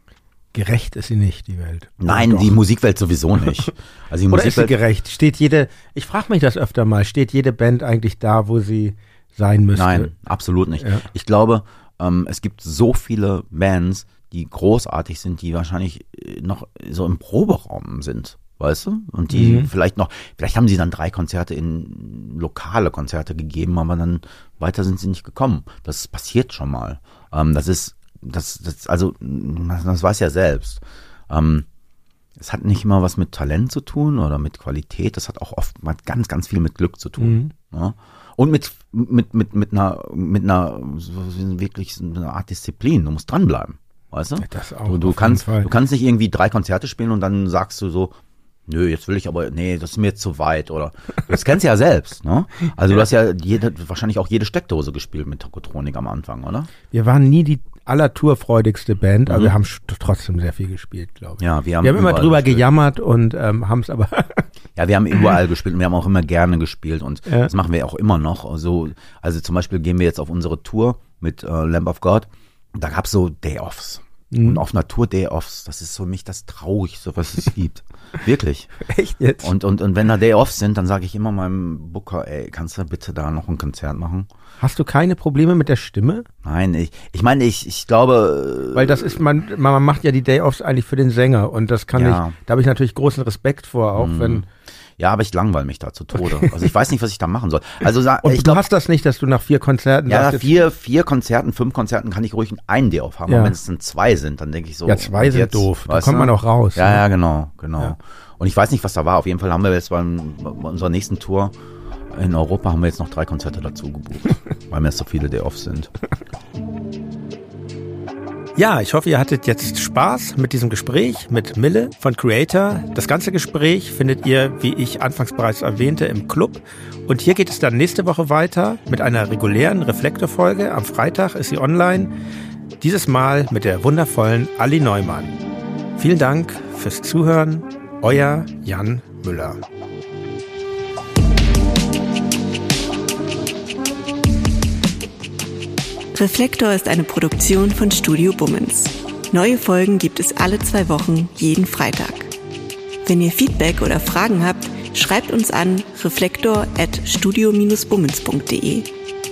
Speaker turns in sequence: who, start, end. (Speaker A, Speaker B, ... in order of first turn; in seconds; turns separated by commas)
Speaker A: 0.5-2.5, Speaker B: 2.0-4.8, Speaker A: 4.3-10.1, Speaker B: 9.8-31.7, Speaker A: 10.8-11.1, Speaker A: 19.3-19.7, Speaker B: 32.4-56.7, Speaker A: 37.2-37.5, Speaker A: 44.4-45.7, Speaker A: 56.9-64.5, Speaker B: 59.3-59.5, Speaker B: 61.4-62.7, Speaker B: 64.8-78.7, Speaker A: 74.3-74.6, Speaker A: 78.8-79.5, Speaker B: 79.4-84.3, Speaker A: 84.6-86.3, Speaker B: 86.4-89.2, Speaker A: 88.7-94.5, Speaker B: 92.0-92.4, Speaker B: 94.0-94.5, Speaker B: 95.0-98.6, Speaker A: 96.2-96.5, Speaker A: 98.2-100.7, Speaker B: 100.1-111.5, Speaker A: 103.3-103.6, Speaker A: 104.9-107.0, Speaker B: 112.1-115.9, Speaker A: 118.6-132.1, Speaker A: 132.8-135.3, Speaker A: 136.0-139.6, Speaker C: 146.1-152.3, Speaker C: 153.0-158.9